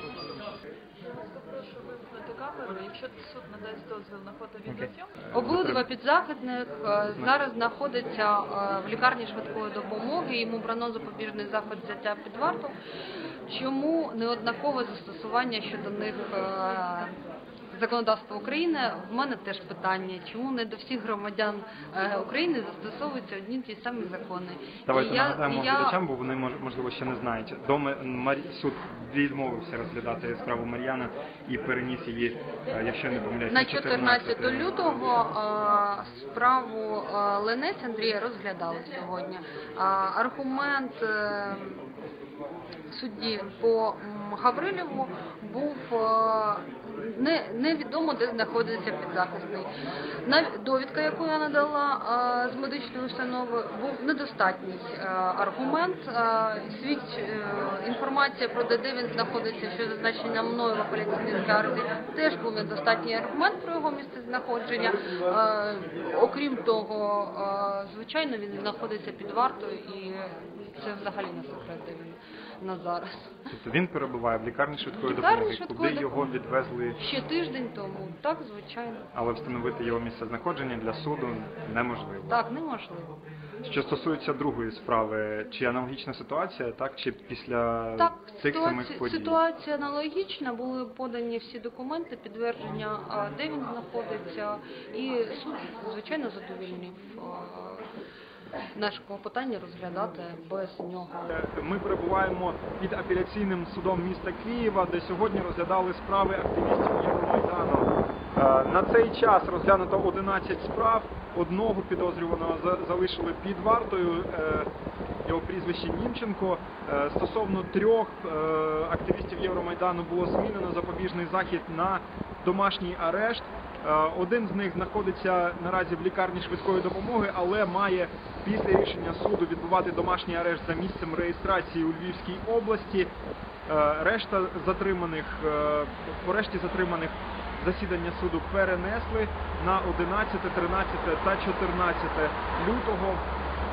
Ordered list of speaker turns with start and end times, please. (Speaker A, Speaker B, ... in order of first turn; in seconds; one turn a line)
Speaker A: 1.1-5.1
Speaker B: 4.7-5.8
Speaker C: 5.3-12.8
Speaker C: 13.5-17.1
Speaker C: 17.7-26.0
Speaker B: 24.8-34.9
Speaker C: 33.5-41.9
Speaker C: 42.9-49.7
Speaker C: 50.2-73.3
Speaker B: 73.5-77.0
Speaker C: 75.0-76.2
Speaker C: 77.0-79.1
Speaker B: 79.1-82.4
Speaker C: 82.3-83.2
Speaker B: 83.6-89.4
Speaker C: 88.0-97.8
Speaker C: 98.7-101.2
Speaker B: 101.3-114.7
Speaker B: 115.2-133.1
Speaker B: 133.7-143.2